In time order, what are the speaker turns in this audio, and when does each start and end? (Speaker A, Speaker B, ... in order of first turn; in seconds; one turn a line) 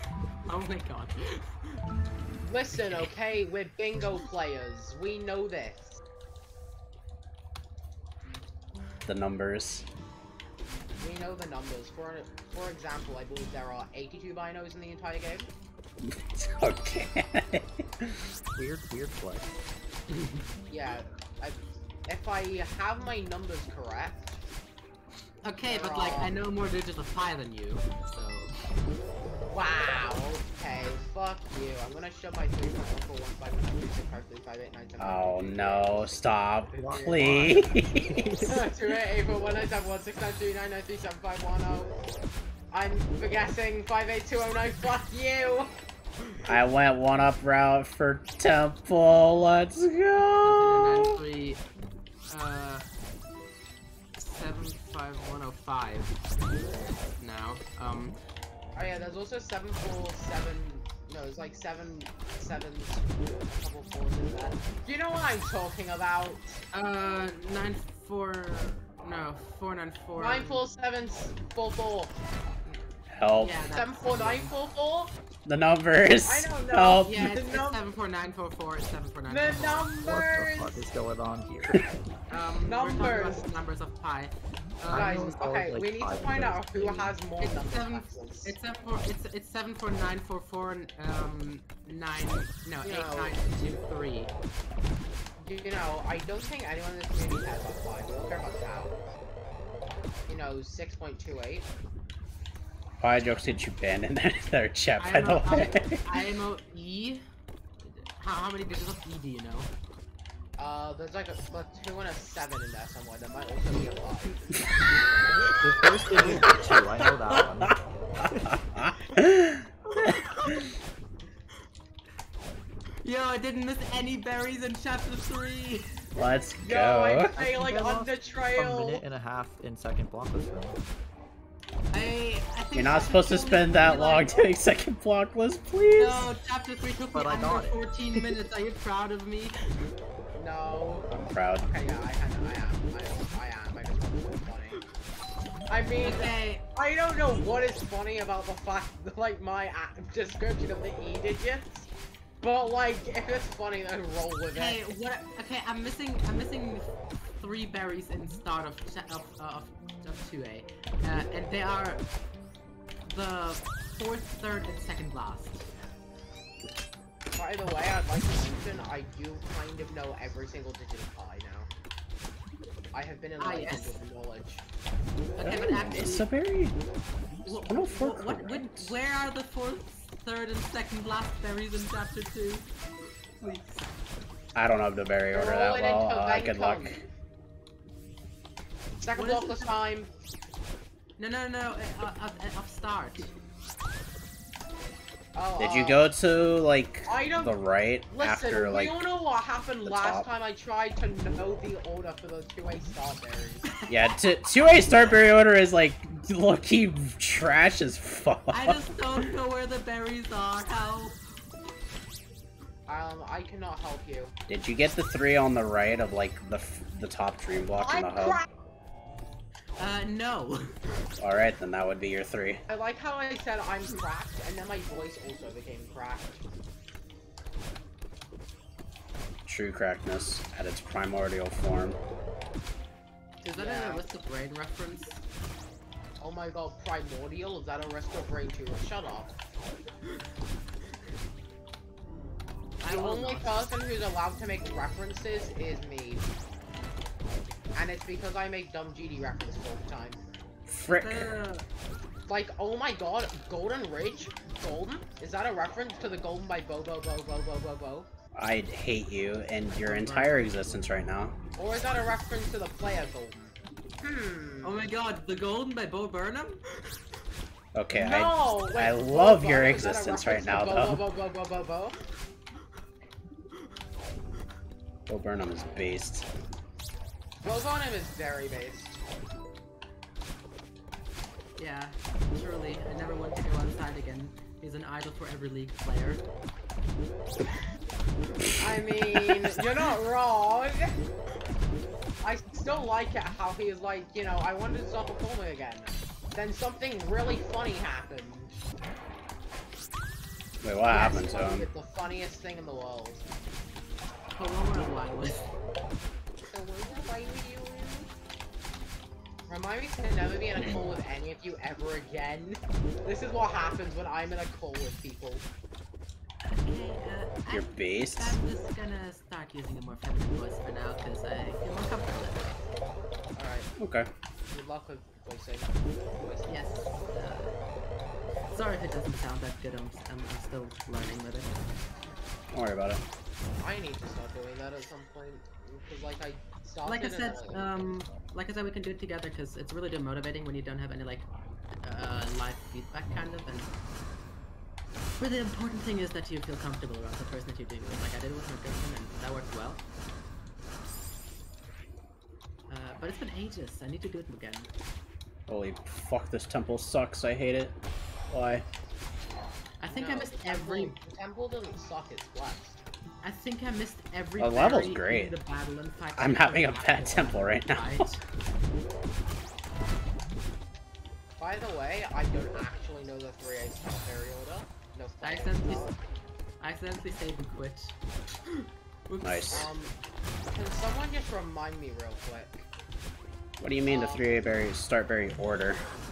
Speaker A: 0.5-1.8
Speaker B: 2.4-6.0
Speaker A: 2.8-3.1
Speaker C: 9.1-9.8
Speaker B: 11.0-15.5
Speaker C: 16.1-18.2
Speaker D: 18.5-19.6
Speaker A: 20.1-20.4
Speaker B: 20.7-24.4
Speaker A: 25.4-28.5
Speaker B: 25.6-26.3
Speaker B: 29.5-37.7
Speaker C: 35.0-38.5
Speaker D: 36.8-38.7
Speaker B: 38.5-41.9
Speaker B: 42.7-45.7
Speaker C: 46.5-51.2
Speaker A: 50.4-51.6
Speaker A: 52.3-52.9
Speaker A: 54.2-56.1
Speaker A: 57.2-58.2
Speaker B: 58.7-66.6
Speaker A: 66.7-70.7
Speaker B: 70.2-72.1
Speaker C: 73.1-73.7
Speaker A: 73.4-74.5
Speaker B: 73.6-75.1
Speaker C: 75.5-77.4
Speaker B: 76.2-77.8
Speaker A: 77.0-79.9
Speaker B: 79.3-80.8
Speaker D: 80.0-82.0
Speaker A: 82.3-85.4
Speaker B: 82.6-83.4
Speaker B: 84.8-88.5
Speaker D: 84.9-87.2
Speaker A: 87.4-94.3
Speaker B: 92.8-93.4
Speaker B: 95.4-99.0
Speaker B: 100.3-101.7
Speaker C: 103.0-106.2
Speaker A: 105.0-107.2
Speaker A: 107.8-109.7
Speaker B: 110.6-114.5
Speaker D: 115.6-118.6
Speaker C: 118.5-120.6
Speaker A: 119.8-120.6
Speaker A: 123.0-125.9
Speaker C: 126.2-127.3
Speaker B: 126.6-129.0
Speaker D: 127.3-130.8
Speaker A: 131.9-134.5
Speaker C: 132.7-136.3
Speaker A: 136.0-139.7
Speaker D: 137.1-138.3
Speaker B: 140.3-141.1
Speaker C: 141.1-141.7
Speaker B: 141.6-144.8
Speaker B: 145.7-151.9
Speaker A: 146.0-146.6
Speaker B: 152.4-154.8
Speaker A: 154.5-162.1
Speaker A: 163.1-165.7
Speaker B: 167.3-171.7
Speaker B: 172.9-174.6
Speaker A: 173.4-174.0
Speaker A: 175.4-176.3
Speaker C: 175.4-176.8
Speaker A: 177.4-182.7
Speaker C: 177.6-178.9
Speaker A: 183.4-183.8
Speaker C: 184.5-187.0
Speaker B: 185.3-187.0
Speaker B: 189.0-190.1
Speaker A: 189.1-189.7
Speaker A: 191.2-193.3
Speaker B: 195.3-196.0
Speaker C: 195.6-199.0
Speaker B: 197.1-197.6
Speaker B: 198.1-203.7
Speaker C: 199.8-200.2
Speaker C: 203.9-208.8
Speaker A: 208.5-211.2
Speaker B: 212.9-214.3
Speaker C: 214.5-218.4
Speaker B: 217.7-218.4
Speaker A: 219.8-220.8
Speaker C: 221.2-222.6
Speaker B: 222.7-226.4
Speaker C: 229.4-232.0
Speaker A: 233.4-235.2
Speaker B: 233.6-234.0
Speaker B: 236.2-239.3
Speaker A: 242.8-243.6
Speaker B: 242.8-246.2
Speaker B: 247.7-250.2
Speaker C: 250.7-251.4
Speaker A: 250.8-251.6
Speaker B: 252.3-258.1
Speaker C: 258.3-261.4
Speaker A: 259.7-260.8
Speaker B: 261.6-264.9
Speaker A: 264.6-267.0
Speaker C: 267.7-271.0
Speaker B: 267.9-272.0
Speaker C: 275.1-276.2
Speaker B: 277.4-279.0
Speaker A: 281.6-286.2
Speaker B: 288.6-290.9
Speaker B: 292.2-298.5
Speaker C: 300.6-301.7
Speaker B: 300.9-303.2
Speaker A: 300.9-301.2
Speaker A: 304.3-305.5
Speaker B: 306.5-308.1
Speaker B: 309.5-315.4
Speaker A: 316.4-322.6
Speaker C: 317.5-318.4
Speaker B: 323.3-323.7
Speaker C: 323.8-324.1
Speaker B: 324.5-326.6
Speaker A: 326.5-327.6
Speaker A: 328.5-331.6
Speaker C: 332.5-333.0
Speaker B: 333.6-337.9
Speaker A: 336.8-341.3
Speaker A: 341.8-343.7
Speaker A: 345.2-349.8
Speaker A: 352.7-354.7
Speaker C: 355.5-357.7
Speaker C: 358.3-358.6
Speaker A: 359.8-361.0
Speaker B: 359.9-362.8
Speaker A: 363.2-368.2
Speaker C: 364.4-365.3
Speaker C: 366.2-368.1
Speaker B: 371.4-376.0
Speaker A: 375.2-375.9
Speaker A: 376.6-379.6
Speaker C: 379.2-379.7
Speaker B: 379.5-382.5
Speaker C: 383.6-385.8
Speaker B: 383.9-384.5